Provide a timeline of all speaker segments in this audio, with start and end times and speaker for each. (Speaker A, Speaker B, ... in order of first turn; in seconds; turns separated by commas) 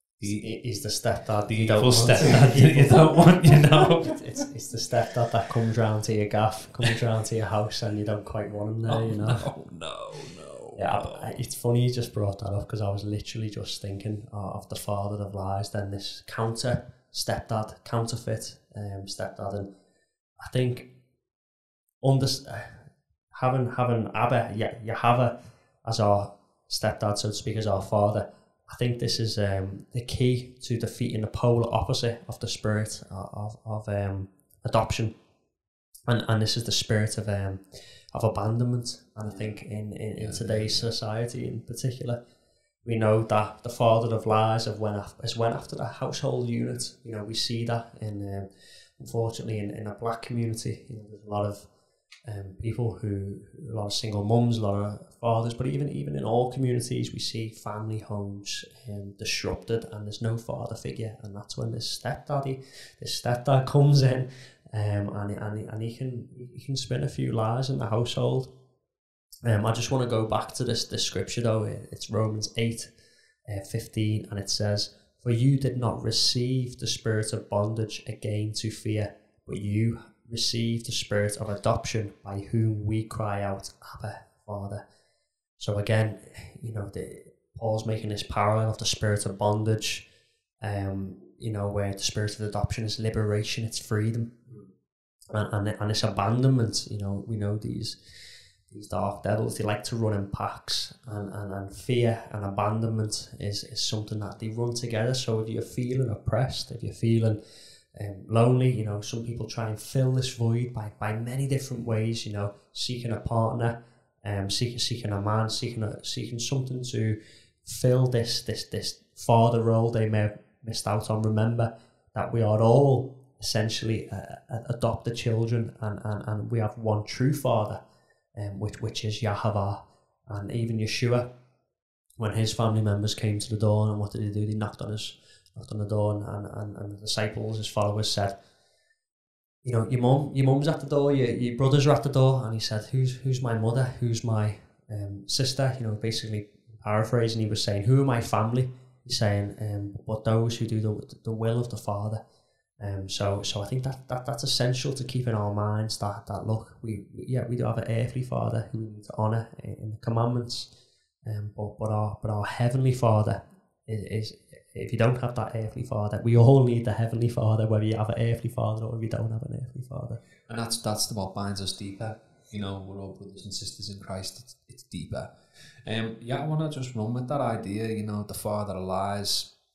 Speaker A: 0.2-0.5, Speaker B: 0.2-9.5, Speaker A: 1.4-4.2, Speaker A: 8.9-11.4, Speaker B: 10.8-19.7, Speaker B: 20.4-20.9, Speaker B: 22.0-35.1, Speaker B: 36.1-42.2, Speaker A: 40.2-40.9, Speaker B: 42.8-51.7, Speaker B: 52.2-68.5, Speaker B: 69.4-72.9, Speaker B: 73.5-84.8, Speaker B: 85.6-90.0, Speaker B: 90.6-94.4, Speaker B: 95.3-107.4, Speaker B: 107.9-127.8, Speaker B: 128.4-131.3, Speaker B: 132.2-138.4, Speaker B: 139.6-152.2, Speaker B: 152.8-160.7, Speaker B: 161.2-170.2, Speaker A: 170.5-179.5